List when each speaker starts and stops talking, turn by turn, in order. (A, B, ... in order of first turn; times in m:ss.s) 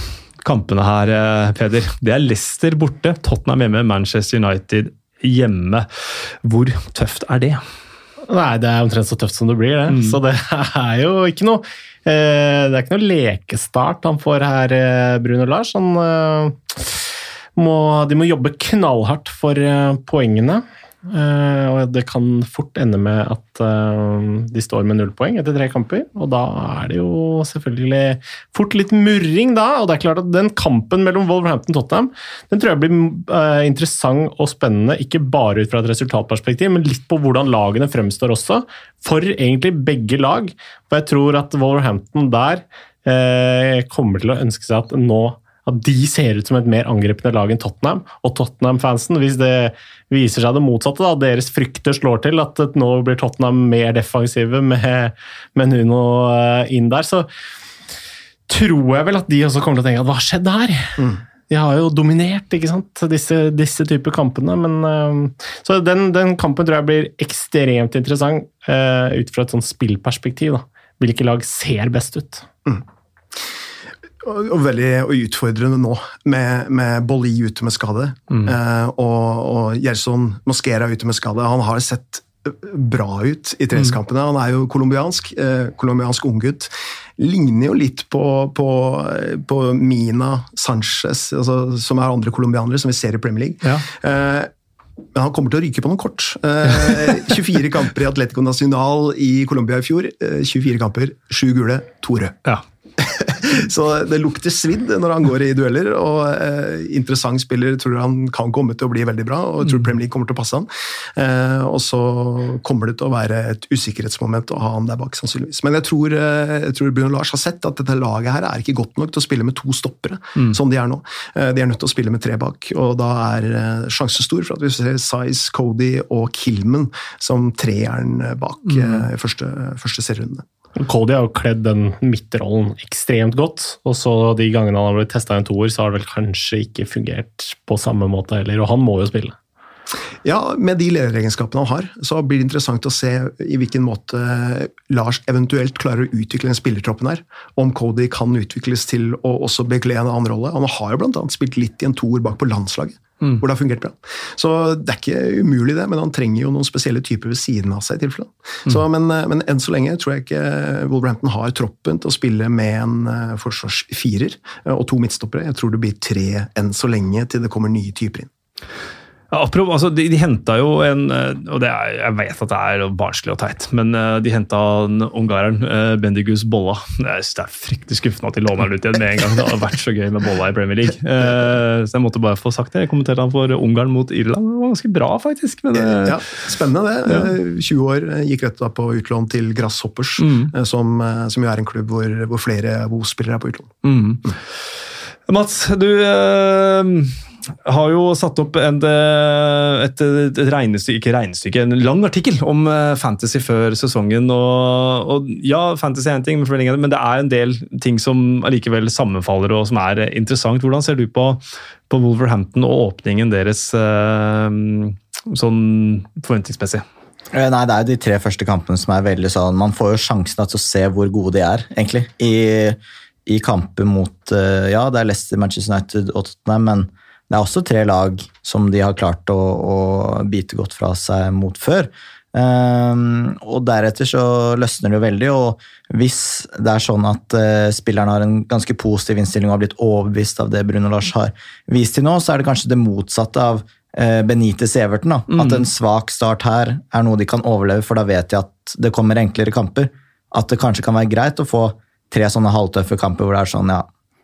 0:00.4-0:05.9 A
0:06.4-0:07.6 A
0:08.3-0:17.0 B
0:09.9-0:10.2 A
0:17.6-0:57.3 B
0:58.5-1:12.4 B
1:14.2-1:34.5 C
1:35.1-1:42.4 C
1:43.0-2:10.4 C
2:08.8-2:09.0 A
2:10.8-2:19.4 B
2:20.2-2:48.3 C
2:49.3-3:06.3 A
3:05.7-3:14.4 C
3:10.2-3:10.5 A
3:13.8-3:14.3 A
3:15.3-3:36.8 A
3:37.3-4:13.9 D
4:05.3-4:05.6 A